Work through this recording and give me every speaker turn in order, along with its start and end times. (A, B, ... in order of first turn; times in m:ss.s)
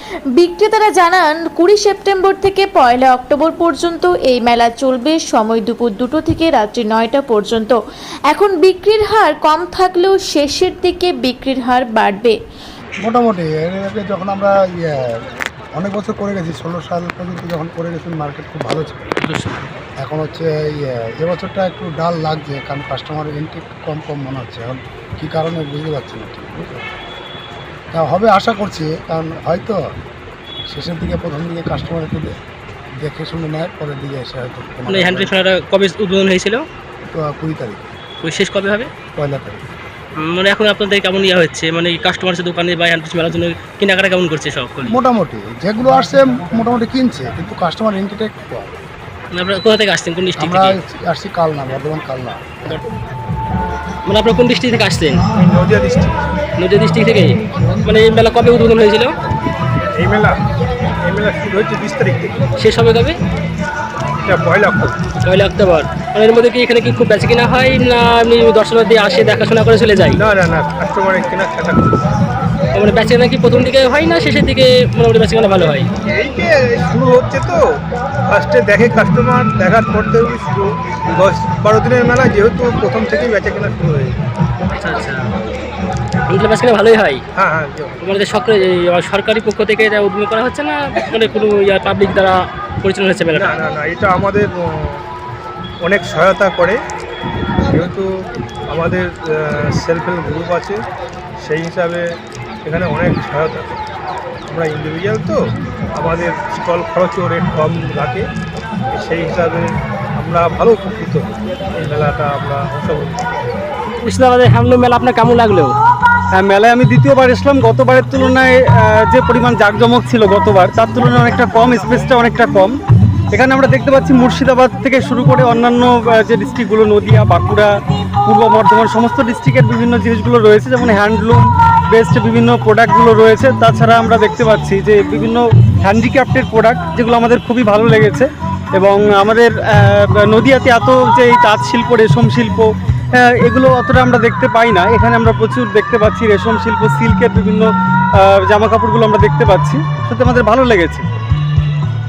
0:00.4-0:07.8 A
0:08.3-0:12.4 A
0:13.0-0:15.2 B
0:15.7-0:19.1 B
0:19.2-0:19.6 C
0:20.0-0:26.9 B
0:27.9-0:29.9 B
0:30.7-0:32.4 B
0:33.0-0:35.3 B
0:34.9-0:36.6 C
0:37.1-0:37.9 B
0:38.2-0:38.9 C
0:39.2-0:39.6 B
0:40.2-0:45.0 C
0:44.9-0:48.8 B
0:49.3-0:50.8 C
0:50.4-0:52.8 B
0:54.0-0:55.2 C
0:55.4-0:56.3 D
0:56.6-0:59.1 C
1:00.0-1:00.4 D
1:01.0-1:02.4 D
1:02.6-1:03.2 C
1:04.2-1:05.0 D
1:05.2-1:10.2 C
1:10.2-1:11.9 D
1:12.8-1:15.9 C
1:16.0-1:17.6 D
1:18.3-1:24.2 D
1:24.8-1:25.3 C
1:26.3-1:27.2 C
1:27.4-1:28.0 D
1:28.0-1:33.6 C
1:33.3-1:35.0 D
1:35.8-1:36.8 D
1:37.6-1:38.1 D
1:38.7-1:40.8 D
1:41.4-1:42.1 D
1:42.6-1:43.8 D
1:44.5-1:45.4 D
1:45.9-1:48.3 D
1:48.9-1:53.2 D
1:54.0-1:55.7 C
1:56.3-2:02.7 E
2:03.3-2:07.7 E
2:08.2-2:27.7 E
2:28.2-2:31.0 E